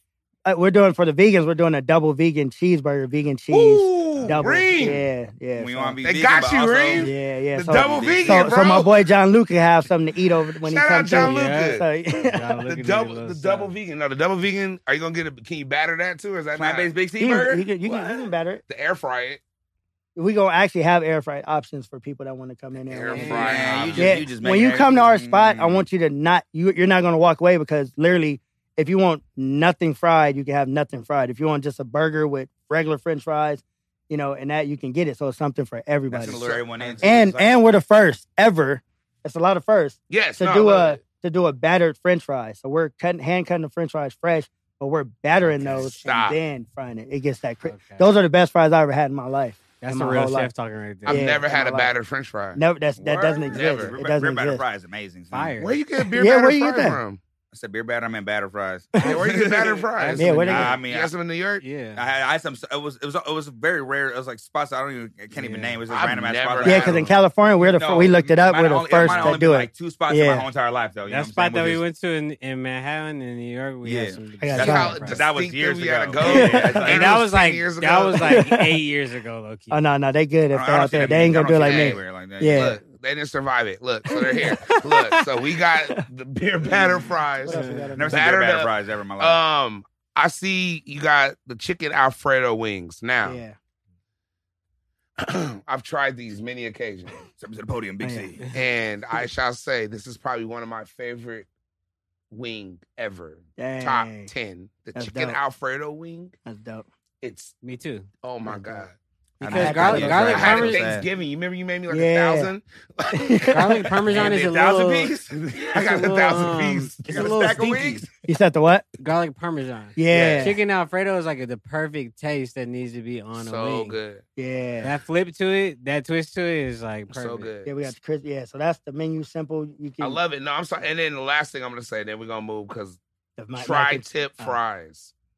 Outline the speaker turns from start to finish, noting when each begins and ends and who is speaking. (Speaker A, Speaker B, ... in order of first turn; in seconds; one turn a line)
Speaker A: 0.5-6.0
Speaker B: 3.5-5.0
Speaker C: 5.5-7.1
Speaker B: 6.0-9.1
Speaker A: 7.0-12.6
Speaker C: 7.8-8.6
Speaker B: 10.6-11.9
Speaker D: 11.1-13.7
Speaker B: 12.7-16.9
Speaker C: 16.6-17.7
Speaker A: 17.2-18.6
Speaker B: 17.8-19.4
Speaker A: 20.1-36.5
Speaker B: 22.9-24.1
Speaker D: 23.1-24.1
Speaker C: 23.3-25.9
Speaker C: 36.1-37.6
Speaker B: 36.2-37.0
Speaker A: 37.0-50.5
Speaker B: 40.1-41.0
Speaker D: 45.4-45.9
Speaker B: 45.8-46.4
Speaker D: 47.6-48.1
Speaker D: 49.8-51.3
Speaker B: 51.0-52.6
Speaker A: 51.0-51.9
Speaker A: 52.5-54.6
Speaker C: 53.0-55.6
Speaker B: 53.5-53.9
Speaker D: 55.3-55.7
Speaker B: 55.6-57.2
Speaker A: 56.1-57.0
Speaker C: 57.5-61.1
Speaker B: 59.0-61.6
Speaker D: 59.9-60.8
Speaker A: 60.1-60.8
Speaker D: 61.6-62.0
Speaker C: 62.0-71.8
Speaker D: 65.3-65.8
Speaker B: 65.9-67.1
Speaker A: 66.6-70.5
Speaker D: 69.0-69.4
Speaker D: 71.1-75.3
Speaker C: 73.8-77.2
Speaker A: 74.4-75.0
Speaker B: 74.6-78.5
Speaker A: 76.2-76.8
Speaker D: 76.8-79.8
Speaker A: 78.2-78.8
Speaker A: 79.7-82.8
Speaker C: 80.5-82.7
Speaker B: 81.4-93.4
Speaker A: 84.1-84.8
Speaker A: 87.4-88.3
Speaker D: 87.5-88.0
Speaker C: 88.0-89.4
Speaker A: 93.2-93.5
Speaker B: 95.2-97.2
Speaker C: 97.4-98.4
Speaker A: 98.0-98.3
Speaker B: 98.5-101.5
Speaker B: 102.3-106.3
Speaker A: 103.6-104.3
Speaker A: 104.9-105.4
Speaker A: 106.5-106.9
Speaker B: 107.2-107.5
Speaker D: 107.6-108.1
Speaker B: 108.2-108.9
Speaker A: 108.5-108.8
Speaker D: 109.4-110.8
Speaker C: 109.4-111.0
Speaker A: 109.5-110.4
Speaker B: 110.0-113.5
Speaker A: 111.9-112.5
Speaker A: 113.1-114.0
Speaker D: 113.5-115.1
Speaker C: 114.1-115.3
Speaker B: 114.1-114.4
Speaker B: 115.3-117.3
Speaker D: 115.7-118.1
Speaker C: 117.0-118.1
Speaker A: 118.2-118.9
Speaker D: 119.0-124.0
Speaker A: 120.0-120.6
Speaker B: 120.1-120.6
Speaker B: 123.3-124.2
Speaker A: 124.4-124.9
Speaker D: 124.8-127.5
Speaker B: 127.1-127.7
Speaker A: 127.6-130.2
Speaker B: 130.0-133.0
Speaker A: 133.4-134.6
Speaker B: 133.6-135.1